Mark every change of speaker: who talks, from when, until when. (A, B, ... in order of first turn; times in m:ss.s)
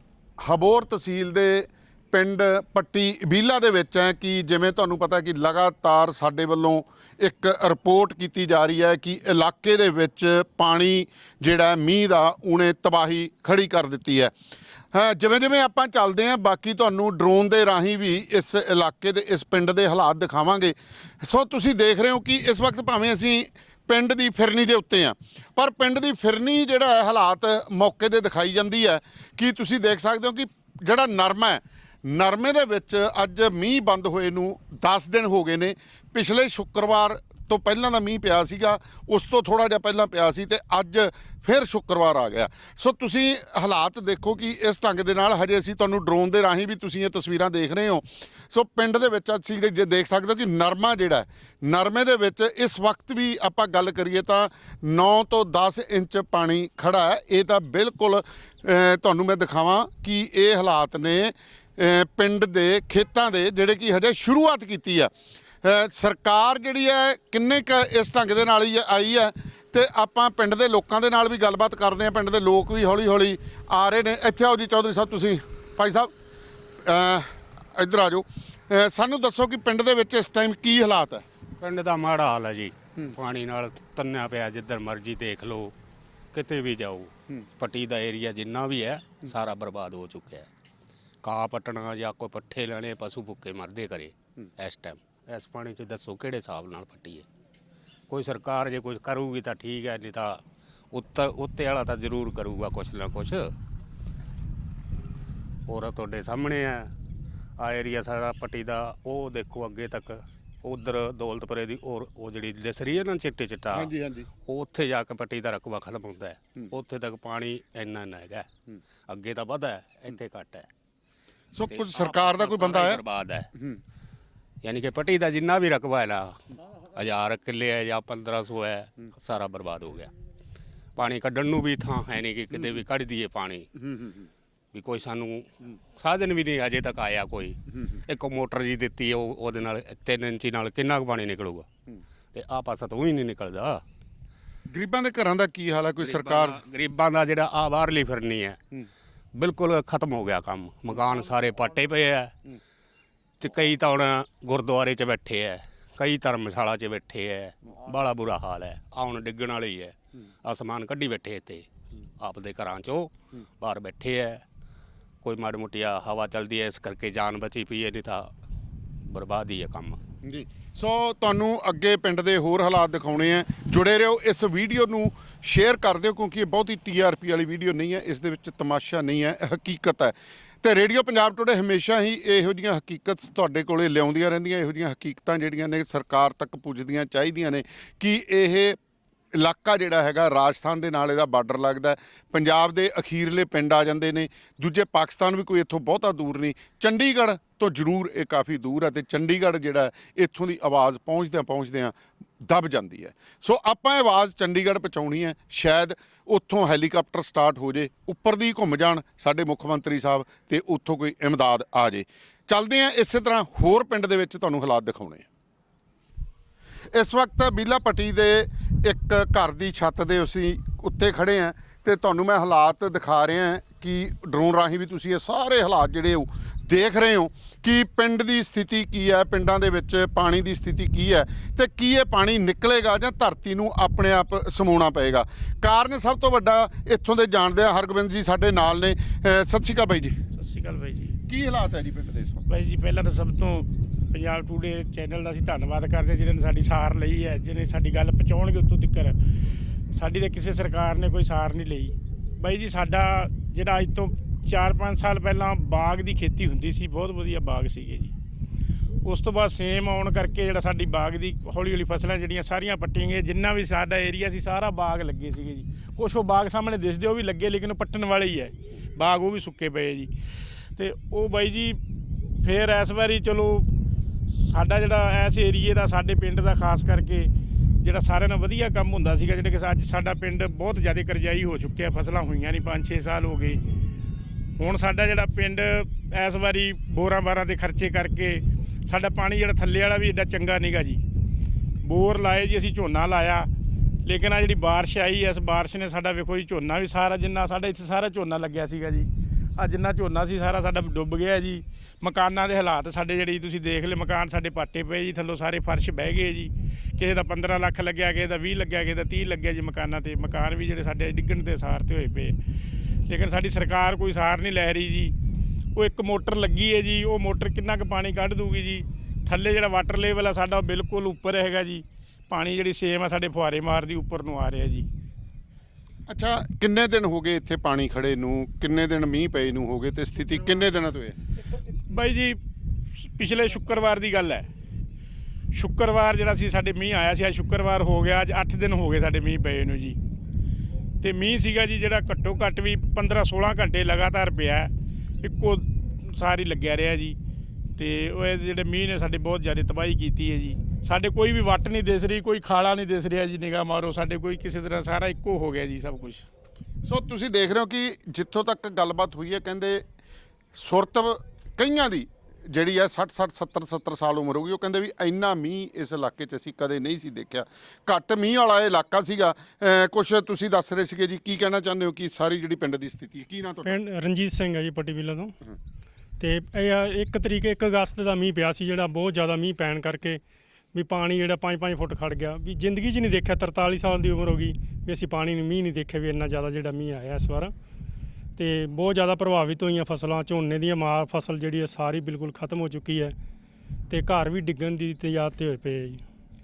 0:00.4-0:14.3 A
0:14.9-1:05.1 A
1:05.6-1:16.1 A
1:16.8-1:21.2 A
1:21.6-1:25.7 B
1:26.3-1:30.5 B
1:31.2-1:37.2 B
1:38.1-1:43.5 B
1:45.7-1:46.9 B
1:47.6-1:53.9 B
1:53.7-1:54.3 A
1:54.5-1:58.5 B
1:59.1-2:00.7 B
2:01.5-2:03.0 A
2:01.6-2:03.5 B
2:04.6-2:06.4 B
2:06.9-2:10.1 B
2:11.0-2:13.9 B
2:14.7-2:21.7 B
2:22.3-2:23.8 B
2:24.7-2:26.6 A
2:26.0-2:28.6 B
2:29.3-2:32.3 B
2:33.4-2:41.7 B
2:42.2-2:44.4 B
2:45.2-2:48.3 B
2:49.1-2:50.0 B
2:50.2-3:08.8 A
3:09.3-3:35.2 A
3:36.9-4:00.2 A
4:00.4-4:01.1 C
4:01.3-4:02.4 A
4:02.5-4:09.2 C
4:09.9-4:18.1 C
4:19.0-4:30.1 C
4:30.8-4:31.8 C
4:32.4-4:33.7 C
4:34.3-4:37.3 C
4:37.8-4:43.6 C
4:44.6-4:51.0 C
4:51.8-4:53.5 C
4:54.0-5:12.4 C
5:13.1-5:15.1 C
5:15.7-5:24.9 C
5:26.1-5:31.2 A
5:31.9-5:32.4 C
5:33.0-5:34.5 C
5:35.5-5:40.0 C
5:41.0-5:44.7 C
5:45.2-5:47.2 C
5:47.8-5:56.2 C
5:56.8-5:59.8 A
6:00.5-6:13.7 A
6:13.6-6:15.3 D
6:16.2-6:20.2 D
6:20.7-6:27.5 D
6:28.4-6:33.2 D
6:33.9-6:36.0 D